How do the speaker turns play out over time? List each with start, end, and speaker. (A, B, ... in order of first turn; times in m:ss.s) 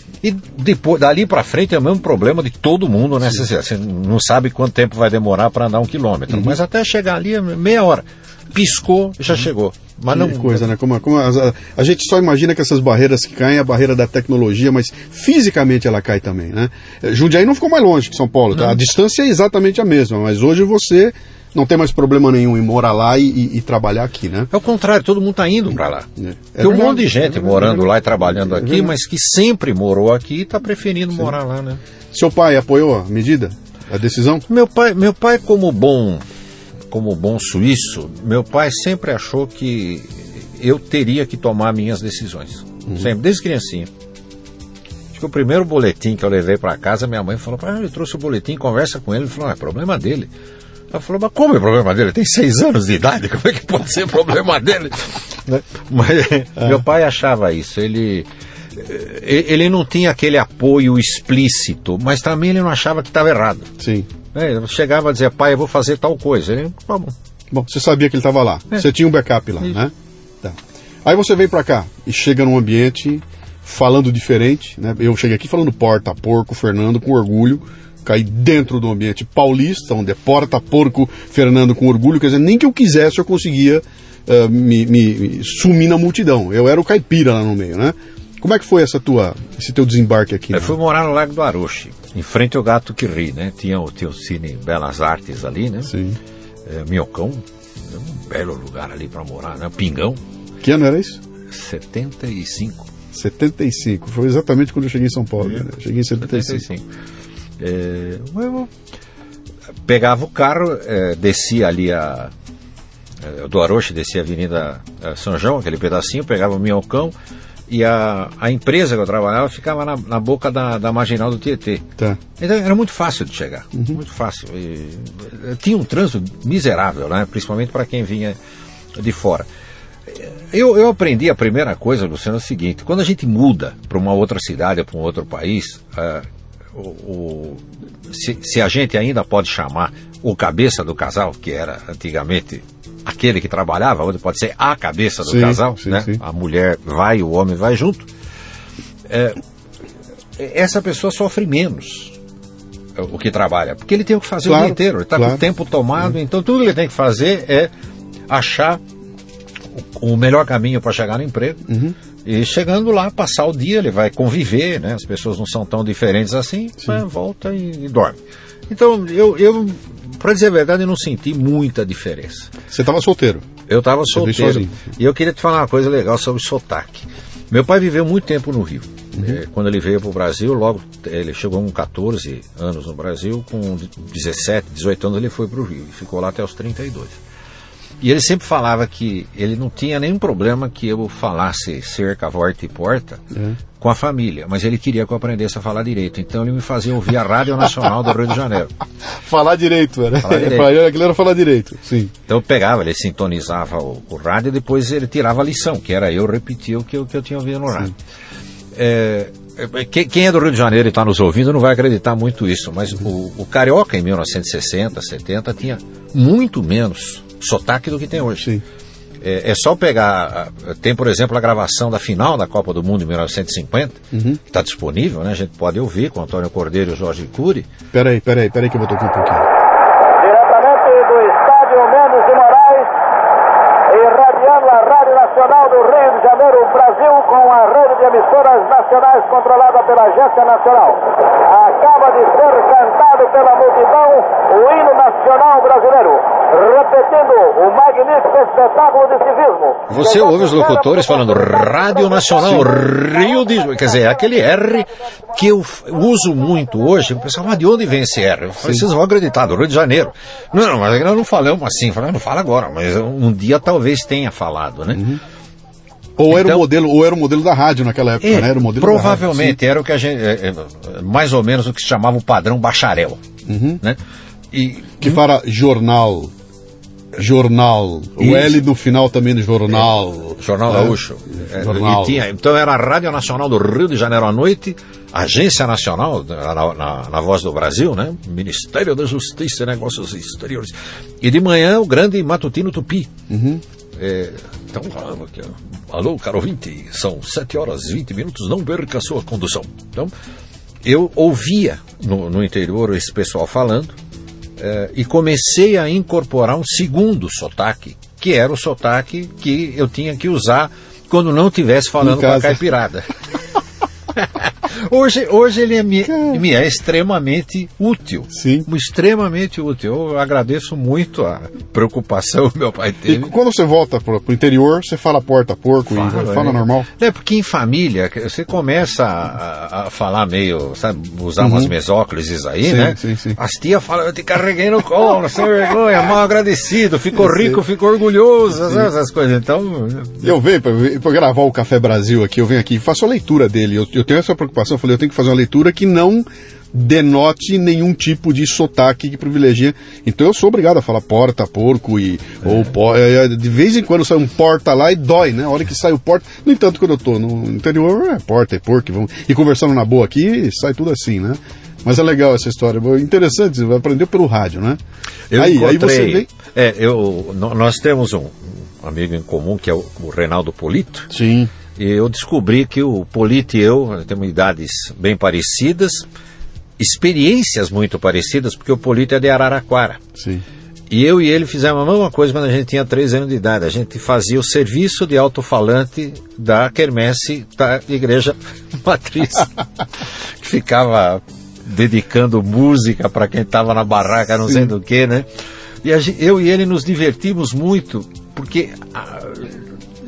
0:00.2-0:10.6 A
0:06.3-0:06.6 B
0:10.1-0:24.5 B
0:18.5-0:18.8 A
0:24.5-0:26.1 A
0:26.2-0:28.9 B
0:26.6-0:31.8 A
0:32.1-0:34.4 B
0:34.5-0:36.2 A
0:36.9-0:43.9 A
0:45.1-0:50.3 A
0:50.9-1:03.7 A
1:03.8-1:04.1 B
1:04.3-1:07.2 A
1:07.5-1:30.8 B
1:30.5-1:35.9 A
1:35.9-1:36.2 B
1:36.7-1:40.2 A
1:40.6-1:41.2 B
1:41.5-1:42.9 A
1:43.1-1:46.6 B
1:46.2-1:46.8 A
1:47.6-1:48.7 A
1:49.9-1:52.3 A
1:53.2-1:57.1 A
1:57.7-2:08.4 A
2:09.0-2:09.5 A
2:10.1-2:28.1 A
2:25.2-2:26.2 B
2:29.1-2:29.4 A
2:30.4-2:32.2 A
2:33.0-2:37.7 A
2:34.4-2:35.4 B
2:38.3-2:38.8 A
2:39.7-2:41.7 A
2:41.7-2:42.0 B
2:42.2-2:48.2 A
2:48.7-2:52.5 A
2:52.7-2:53.5 B
2:53.7-3:07.2 A
2:54.1-2:54.8 B
2:59.1-2:59.4 B
3:08.0-3:13.2 A
3:13.3-3:13.6 B
3:13.8-3:18.7 A
3:19.2-3:22.1 B
3:20.2-3:20.8 A
3:22.3-3:27.9 A
3:28.7-3:38.5 A
3:39.2-3:47.7 A
3:44.1-3:44.4 B
3:47.9-3:49.5 B
3:50.2-3:53.0 C
3:53.9-4:11.1 C
4:09.9-4:25.0 A
4:12.4-4:12.7 B
4:24.9-4:25.2 B
4:26.2-4:29.6 B
4:26.3-4:26.7 A
4:28.2-4:33.2 A
4:33.5-4:33.8 B
4:34.5-4:35.2 A
4:35.0-4:36.3 B
4:37.2-4:42.2 B
4:38.2-4:38.6 A
4:40.4-4:53.1 A
4:53.3-4:53.6 B
4:54.0-5:00.1 A
5:00.8-5:04.0 A
5:04.6-5:13.1 A
5:12.0-5:12.6 B
5:14.2-5:23.3 A
5:18.3-5:18.7 B
5:23.1-5:26.9 B
5:25.9-5:40.3 A
5:31.4-5:31.7 B
5:32.6-5:33.4 B
5:37.2-5:37.6 B
5:40.2-6:04.8 B
6:05.3-6:11.1 A
6:05.4-6:06.3 B
6:11.1-6:11.5 B
6:11.8-6:16.1 A
6:16.8-6:20.0 A
6:20.2-6:20.4 B
6:20.9-6:29.6 A
6:30.4-6:35.3 A
6:35.8-6:39.7 A